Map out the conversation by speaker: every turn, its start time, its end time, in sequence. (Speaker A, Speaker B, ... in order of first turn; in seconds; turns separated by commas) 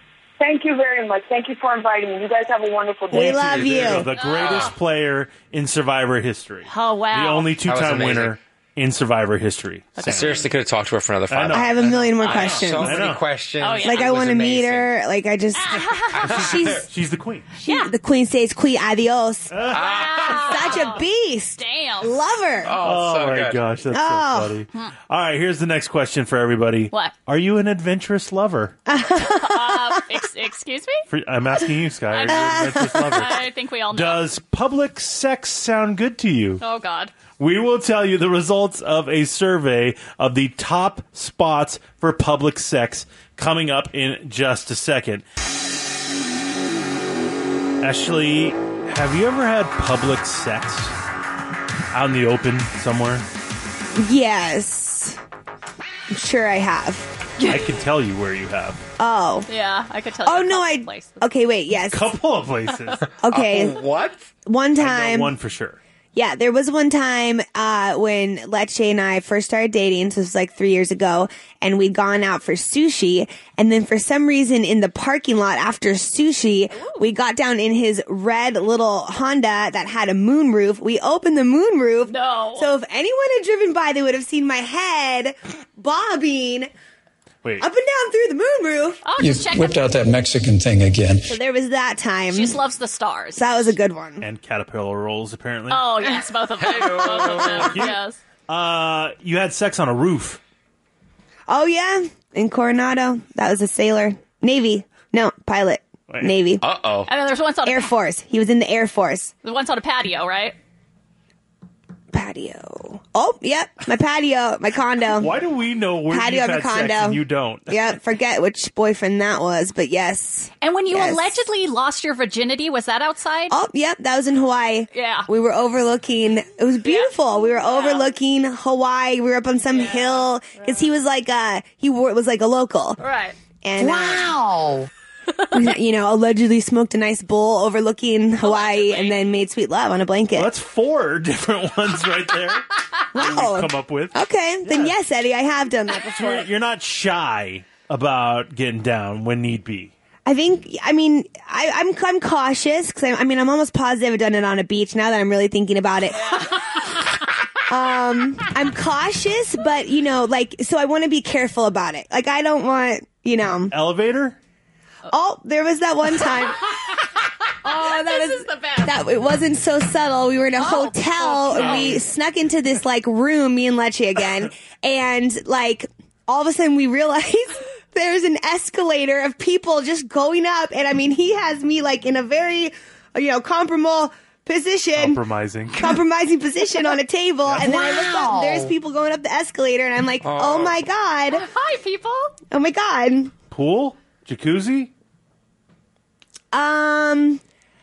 Speaker A: 0.4-4.1, Speaker B: 3.1-10.4, Speaker C: 3.1-4.1, Speaker D: 4.2-4.7, Speaker E: 4.4-4.7, Speaker D: 6.7-7.5, Speaker E: 7.6-8.4, Speaker D: 10.0-10.4, Speaker E: 10.0-14.9, Speaker B: 11.3-13.2, Speaker C: 11.5-13.0, Speaker D: 13.6-14.1, Speaker C: 13.8-16.9, Speaker D: 15.5-16.2, Speaker E: 16.1-16.8, Speaker B: 16.2-17.4, Speaker D: 17.6-17.9, Speaker C: 17.6-19.6, Speaker B: 19.5-19.9, Speaker E: 19.7-20.7, Speaker D: 19.8-22.2, Speaker C: 20.4-22.8, Speaker E: 22.6-23.6, Speaker B: 22.8-28.7, Speaker C: 23.9-24.6, Speaker C: 28.9-30.1, Speaker D: 29.2-31.0, Speaker B: 31.1-36.6, Speaker D: 32.1-34.3, Speaker C: 32.3-33.2, Speaker D: 36.6-37.1, Speaker B: 37.4-45.2, Speaker B: 47.8-50.9, Speaker B: 51.9-53.2, Speaker C: 54.0-55.2, Speaker C: 56.1-57.1, Speaker B: 57.5-58.8, Speaker C: 59.0-59.5, Speaker D: 59.5-61.2, Speaker C: 60.2-62.1, Speaker B: 61.9-63.0, Speaker E: 63.2-64.2, Speaker C: 63.2-63.9, Speaker C: 64.5-65.3, Speaker B: 64.8-65.8, Speaker C: 66.1-86.7, Speaker D: 76.7-77.0, Speaker D: 82.0-82.7, Speaker C: 87.6-89.0, Speaker D: 89.0-89.9, Speaker F: 89.2-91.3, Speaker C: 91.2-92.6, Speaker D: 92.3-93.7, Speaker C: 93.3-94.3, Speaker B: 94.2-96.1, Speaker D: 95.7-98.2, Speaker E: 96.6-97.8, Speaker B: 97.6-98.0, Speaker B: 98.5-100.4, Speaker C: 101.5-106.6, Speaker B: 106.1-106.3, Speaker E: 106.6-107.1, Speaker D: 107.1-107.9, Speaker C: 107.6-109.3, Speaker D: 109.4-110.5, Speaker C: 112.1-115.4, Speaker B: 115.2-117.9, Speaker C: 116.1-121.4, Speaker D: 120.6-123.5, Speaker C: 123.5-133.0, Speaker D: 124.9-125.3, Speaker D: 126.8-128.1, Speaker D: 129.7-130.8, Speaker D: 133.0-133.3, Speaker C: 133.6-134.3, Speaker C: 135.5-140.5, Speaker D: 138.4-139.3, Speaker B: 140.3-145.0, Speaker C: 143.1-146.4, Speaker B: 146.2-149.9, Speaker C: 150.2-156.4, Speaker D: 156.1-156.6, Speaker C: 157.7-163.7, Speaker B: 163.7-164.3, Speaker C: 165.1-166.6, Speaker D: 167.6-169.0, Speaker C: 167.6-185.2, Speaker D: 170.6-172.0, Speaker B: 171.5-172.0, Speaker B: 184.9-186.0, Speaker C: 185.7-191.4, Speaker B: 187.4-187.9, Speaker E: 190.2-190.8, Speaker D: 191.3-192.3, Speaker C: 192.5-193.3, Speaker B: 193.5-194.9, Speaker C: 196.5-197.4